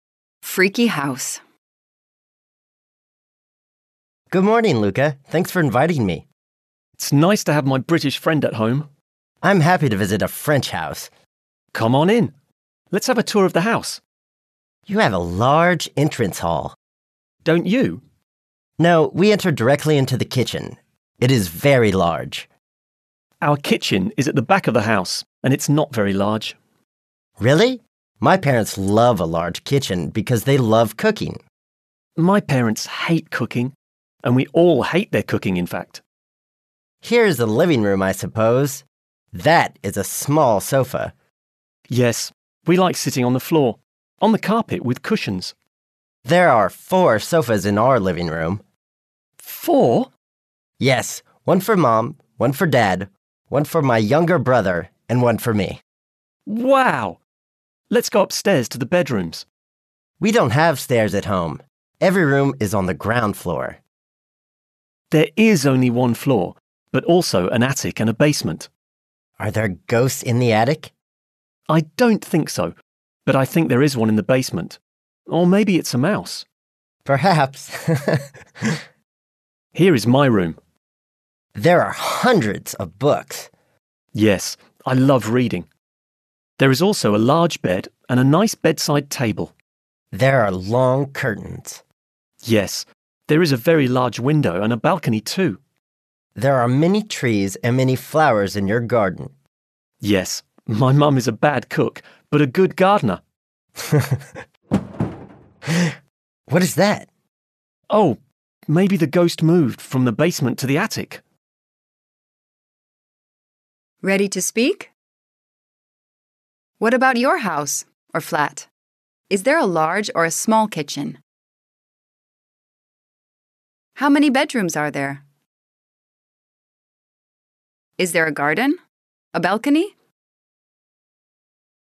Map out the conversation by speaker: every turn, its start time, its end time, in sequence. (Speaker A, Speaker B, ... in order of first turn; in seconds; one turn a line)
Speaker A: 0.4-1.4
Speaker B: 4.3-6.2
Speaker C: 7.0-8.9
Speaker B: 9.4-11.1
Speaker C: 11.7-12.3
Speaker C: 12.9-14.0
Speaker B: 14.9-16.8
Speaker C: 17.4-18.0
Speaker B: 18.8-22.5
Speaker C: 23.4-26.6
Speaker B: 27.4-31.4
Speaker C: 32.2-36.0
Speaker B: 37.0-41.1
Speaker C: 41.9-45.5
Speaker B: 46.2-48.6
Speaker C: 49.4-50.1
Speaker B: 50.8-55.8
Speaker C: 56.5-57.2
Speaker C: 57.9-59.5
Speaker B: 60.2-63.8
Speaker C: 65.1-68.7
Speaker B: 69.4-70.9
Speaker C: 71.7-72.7
Speaker C: 73.3-76.5
Speaker B: 77.0-78.8
Speaker C: 79.8-80.6
Speaker B: 81.5-83.5
Speaker C: 84.2-85.7
Speaker C: 86.6-89.5
Speaker B: 90.1-91.8
Speaker C: 92.4-95.6
Speaker B: 96.3-99.3
Speaker C: 100.0-103.2
Speaker B: 103.9-104.2
Speaker B: 106.5-107.1
Speaker C: 107.9-111.2
Speaker A: 114.0-114.9
Speaker A: 116.8-118.7
Speaker A: 119.3-121.2
Speaker A: 124.0-125.2
Speaker A: 128.0-128.8
Speaker A: 129.3-129.9